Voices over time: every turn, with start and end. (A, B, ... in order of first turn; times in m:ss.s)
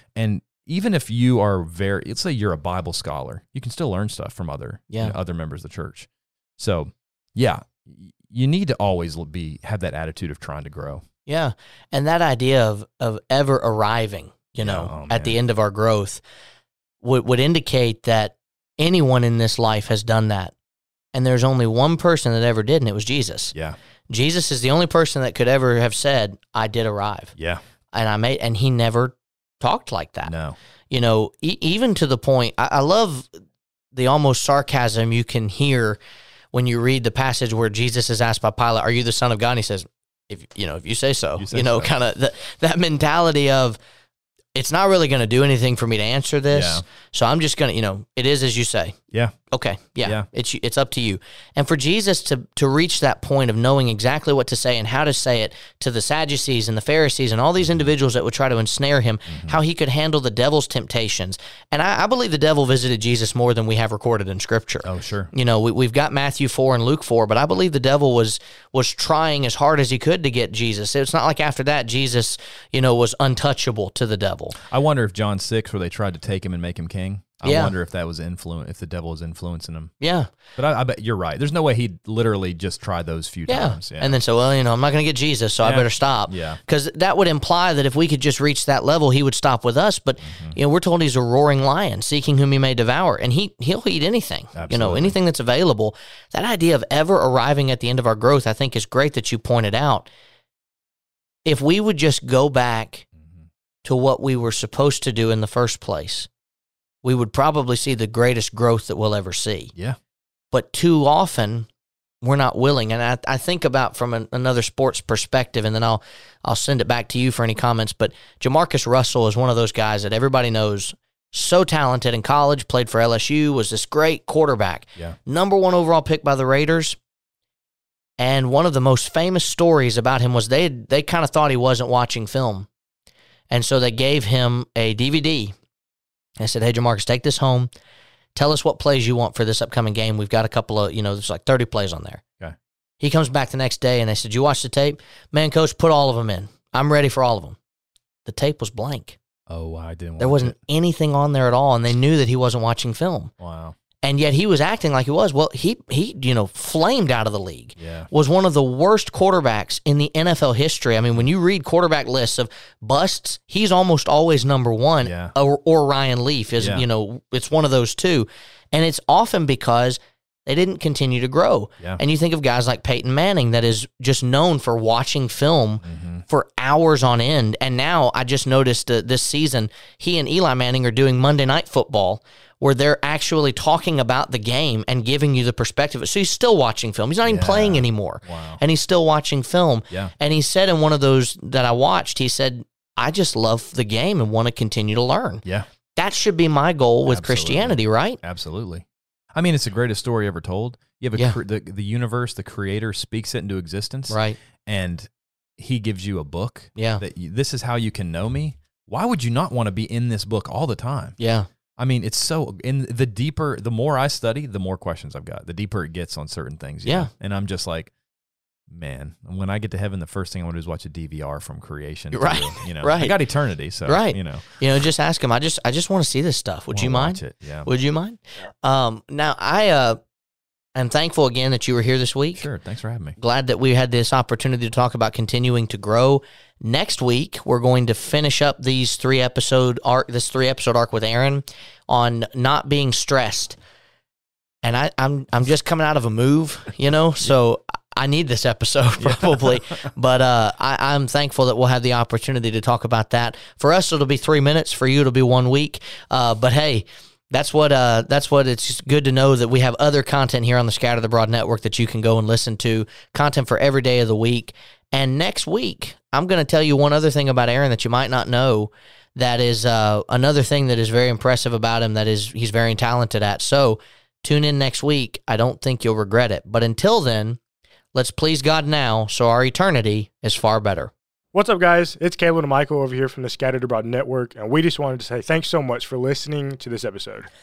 0:00.1-0:11.0 A
0:11.2-0:16.2 B
0:14.6-0:15.4 A
0:17.0-0:20.5 B
0:21.1-0:23.5 B
0:24.1-0:27.3 B
0:27.4-0:27.6 A
0:27.9-0:30.3 B
0:30.2-0:30.6 A
0:30.9-0:33.3 B
0:33.9-0:36.0 B
0:36.5-0:43.8 B
0:41.4-0:41.9 A
0:44.5-0:49.0 B
0:46.5-0:46.8 A
0:49.5-1:14.6 B
0:59.3-0:59.6 A
1:04.8-1:05.3 A
1:14.6-1:19.9 A
1:17.4-1:17.7 B
1:20.0-1:20.3 B
1:20.6-1:24.2 A
1:23.5-1:40.1 B
1:25.6-1:26.6 A
1:30.2-1:30.6 A
1:34.5-1:35.1 A
1:41.4-1:43.0 B
1:43.8-1:46.3 B
1:47.0-1:49.7 B
1:50.5-1:51.7 B
1:52.2-2:07.0 B
2:08.2-2:12.7 B
2:13.5-2:15.5 B
2:16.4-2:17.7 B
2:18.3-2:22.2 B
2:23.0-2:27.6 B
2:28.2-2:29.2 B
2:29.5-2:30.6 A
2:30.2-2:33.3 B
2:33.4-2:33.8 A
2:34.0-3:15.4 B
2:37.8-2:38.1 A
2:45.0-2:45.3 A
2:46.6-2:46.8 A
2:55.8-2:56.2 A
3:07.2-3:08.6 A
3:15.9-3:18.2 B
3:17.1-3:31.2 A
3:24.1-3:24.4 B
3:26.8-3:27.0 B
3:31.2-3:31.5 B
3:31.8-3:37.9 A
3:38.7-3:44.4 A
3:42.1-3:43.1 B
3:43.8-3:50.0 B
3:46.7-3:47.7 A
3:50.7-3:52.4 B
3:52.3-3:53.2 A
3:53.2-4:03.6 B
4:04.6-4:37.4 B
4:09.0-4:09.6 A
4:37.9-4:40.9 B
4:41.3-4:47.3 C